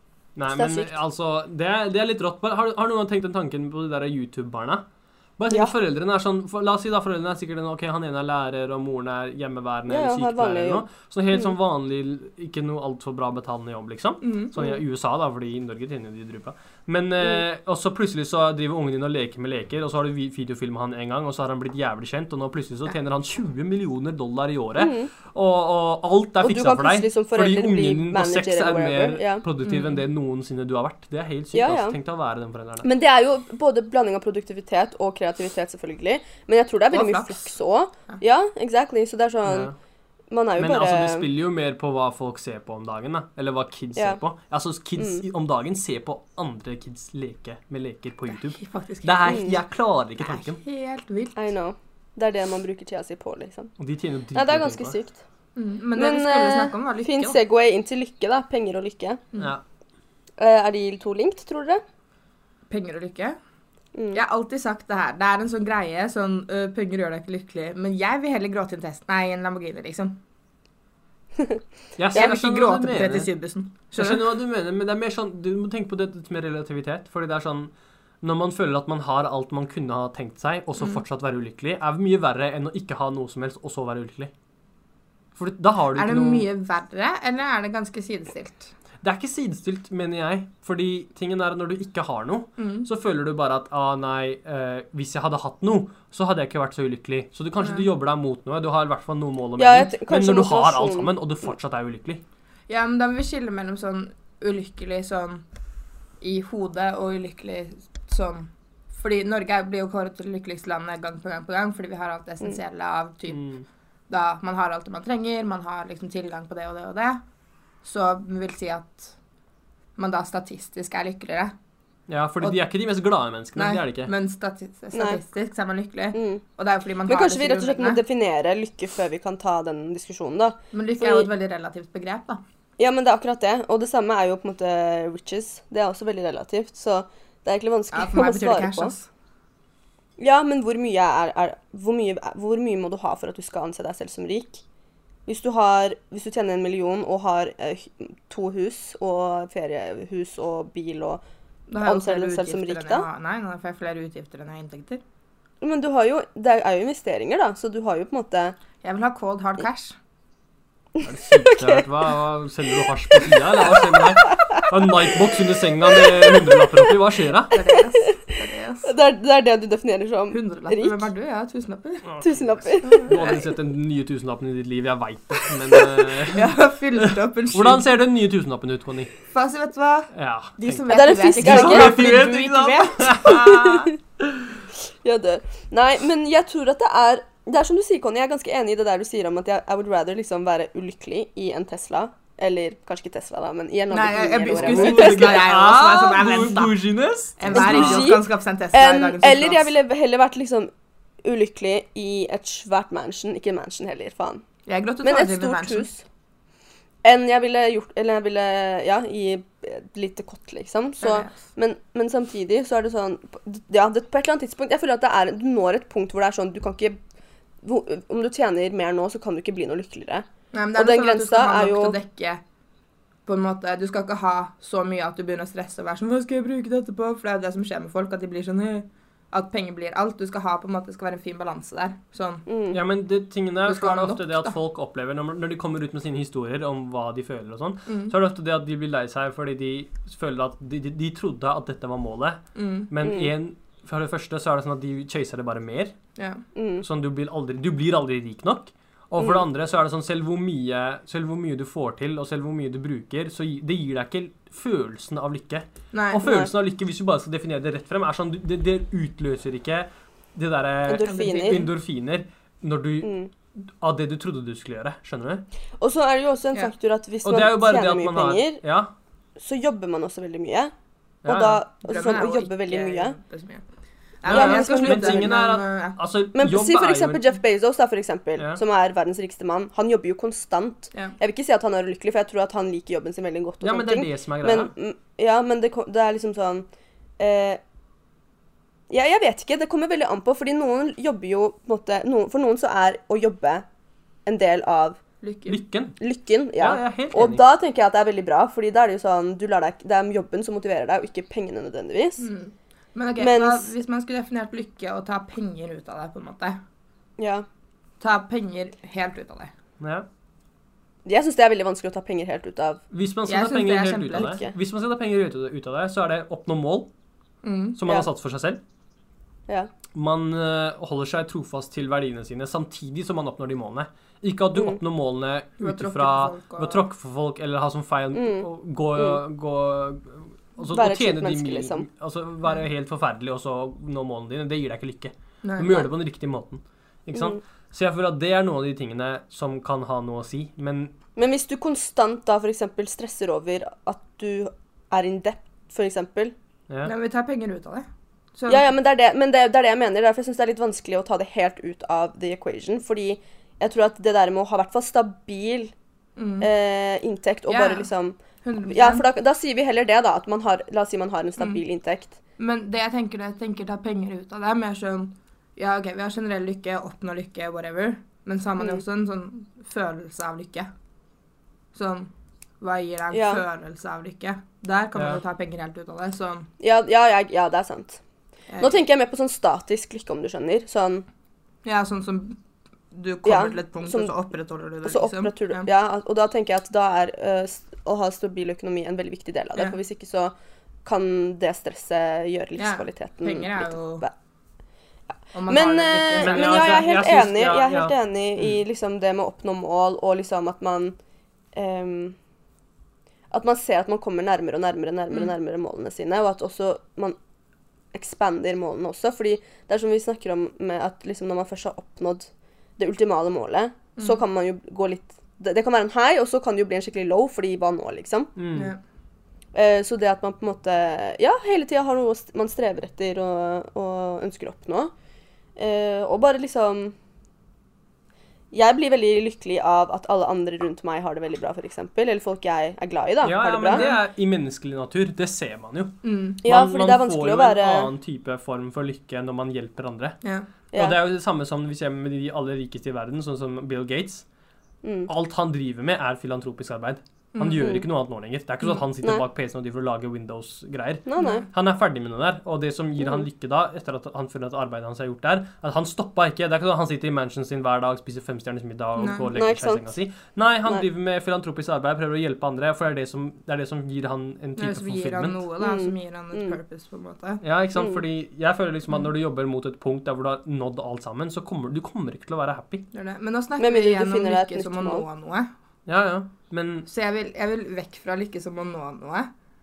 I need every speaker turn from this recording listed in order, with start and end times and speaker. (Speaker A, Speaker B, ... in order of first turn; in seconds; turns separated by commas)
Speaker A: 0.3-4.8, Speaker B: 0.5-0.9, Speaker A: 5.4-32.9, Speaker B: 9.9-11.5, Speaker C: 14.2-14.5, Speaker B: 24.8-25.1, Speaker B: 26.4-29.4, Speaker C: 29.6-30.0, Speaker B: 31.5-32.0, Speaker B: 32.8-39.7, Speaker C: 36.9-37.5, Speaker A: 39.4-39.7, Speaker B: 40.3-41.3, Speaker A: 40.5-50.6, Speaker B: 44.0-44.2, Speaker B: 45.0-45.2, Speaker C: 48.3-49.6, Speaker B: 49.2-49.5, Speaker C: 50.2-51.5, Speaker B: 51.3-53.7, Speaker A: 53.8-55.0, Speaker B: 54.3-55.2, Speaker C: 55.5-57.4, Speaker B: 56.0-59.2, Speaker B: 60.4-61.8, Speaker C: 62.7-63.4, Speaker B: 63.9-64.2, Speaker C: 64.1-70.2, Speaker A: 72.0-73.3, Speaker C: 72.1-74.3, Speaker A: 74.0-84.3, Speaker A: 85.3-86.5, Speaker C: 85.9-88.7, Speaker A: 89.0-102.2, Speaker C: 92.6-92.9, Speaker C: 97.6-97.9, Speaker B: 99.6-101.1, Speaker C: 102.7-105.4, Speaker C: 106.2-113.5, Speaker A: 113.3-113.6, Speaker C: 114.1-117.2, Speaker C: 117.8-119.1, Speaker C: 120.0-121.5, Speaker A: 122.1-124.1, Speaker C: 123.5-128.0, Speaker B: 124.9-125.2, Speaker B: 126.1-126.4, Speaker B: 127.1-131.3, Speaker C: 130.7-132.4, Speaker B: 132.8-138.9, Speaker C: 137.9-139.1, Speaker B: 140.2-144.6, Speaker B: 145.2-151.2, Speaker C: 151.7-155.0, Speaker B: 151.8-153.0, Speaker B: 155.6-158.6, Speaker C: 158.8-159.9, Speaker B: 161.0-161.8, Speaker A: 161.0-167.5, Speaker B: 165.9-166.5, Speaker C: 167.5-168.9, Speaker B: 168.8-171.1, Speaker C: 170.3-172.1, Speaker A: 172.1-179.1, Speaker B: 172.2-173.3, Speaker C: 175.9-177.9, Speaker C: 179.3-183.5, Speaker A: 180.1-184.5, Speaker B: 180.9-182.0, Speaker B: 183.2-183.9, Speaker B: 185.0-195.4, Speaker C: 193.9-199.7, Speaker A: 194.5-198.2, Speaker B: 197.5-200.7, Speaker B: 201.2-204.4, Speaker C: 204.7-205.9, Speaker B: 205.0-206.0, Speaker B: 207.0-217.0, Speaker C: 211.0-211.3, Speaker B: 217.6-221.9, Speaker C: 220.5-222.4, Speaker C: 223.2-232.4, Speaker B: 232.5-232.8, Speaker A: 232.7-245.9, Speaker C: 233.7-234.5, Speaker C: 237.9-238.1, Speaker C: 242.5-242.9, Speaker B: 243.0-243.3, Speaker C: 246.2-246.4, Speaker B: 246.5-246.8, Speaker A: 246.8-265.4, Speaker C: 255.9-256.3, Speaker B: 256.2-256.5, Speaker B: 260.9-261.7, Speaker C: 261.0-261.6, Speaker B: 263.0-263.3, Speaker B: 265.8-268.6, Speaker A: 267.2-268.9, Speaker B: 269.4-270.7, Speaker A: 271.2-271.6, Speaker B: 271.2-273.2, Speaker C: 271.8-273.6, Speaker C: 274.2-276.0, Speaker A: 274.2-277.2, Speaker B: 274.3-275.3, Speaker B: 276.3-286.7, Speaker A: 278.4-278.6, Speaker A: 283.6-284.7, Speaker B: 287.2-287.6, Speaker B: 288.9-293.6, Speaker B: 294.2-295.0, Speaker C: 295.2-295.6, Speaker A: 295.4-295.9, Speaker B: 296.0-302.3, Speaker A: 296.6-297.4, Speaker C: 302.2-306.6, Speaker B: 303.2-303.7, Speaker B: 307.2-307.4, Speaker C: 308.0-309.5, Speaker A: 309.8-310.1, Speaker B: 311.1-312.8, Speaker A: 312.9-316.9, Speaker C: 313.3-314.4, Speaker B: 314.1-314.5, Speaker C: 317.4-317.8, Speaker A: 317.7-318.6, Speaker A: 319.9-340.9, Speaker C: 325.6-326.8, Speaker B: 328.1-329.2, Speaker B: 330.7-331.9, Speaker C: 335.4-335.9, Speaker B: 337.1-337.4, Speaker B: 341.1-346.3, Speaker C: 346.8-348.7, Speaker B: 348.5-355.7, Speaker C: 356.2-356.5, Speaker B: 356.4-362.2, Speaker C: 357.5-357.9, Speaker C: 358.4-359.0, Speaker C: 362.4-370.7, Speaker C: 371.7-372.1, Speaker C: 372.6-376.5, Speaker B: 373.1-373.4, Speaker A: 374.9-375.2, Speaker B: 376.6-378.0, Speaker C: 378.5-378.8, Speaker B: 378.6-381.0, Speaker C: 381.6-382.4, Speaker C: 382.9-385.7, Speaker B: 383.2-384.1, Speaker B: 384.8-390.3, Speaker B: 390.8-394.1, Speaker C: 392.6-394.0, Speaker C: 395.3-396.8, Speaker B: 395.5-400.9, Speaker A: 396.2-398.5, Speaker B: 401.5-402.1, Speaker B: 403.3-407.2, Speaker B: 407.9-418.3, Speaker A: 418.4-418.7, Speaker C: 418.5-418.8, Speaker B: 419.5-424.9, Speaker B: 425.6-426.9, Speaker B: 428.5-433.8, Speaker A: 433.2-440.2, Speaker C: 433.7-434.0, Speaker C: 436.0-436.4, Speaker B: 436.4-437.9, Speaker B: 440.7-441.0, Speaker A: 440.8-444.2, Speaker B: 444.8-445.1, Speaker A: 445.1-465.4, Speaker C: 447.3-447.7, Speaker B: 447.6-447.9, Speaker B: 451.1-451.5, Speaker C: 451.2-451.4, Speaker C: 459.0-459.3, Speaker B: 459.3-459.9, Speaker C: 464.6-467.4, Speaker B: 465.6-466.6, Speaker A: 467.4-472.8, Speaker B: 467.8-468.0, Speaker C: 472.9-475.5, Speaker B: 473.6-475.0, Speaker A: 475.9-476.9, Speaker C: 476.9-479.3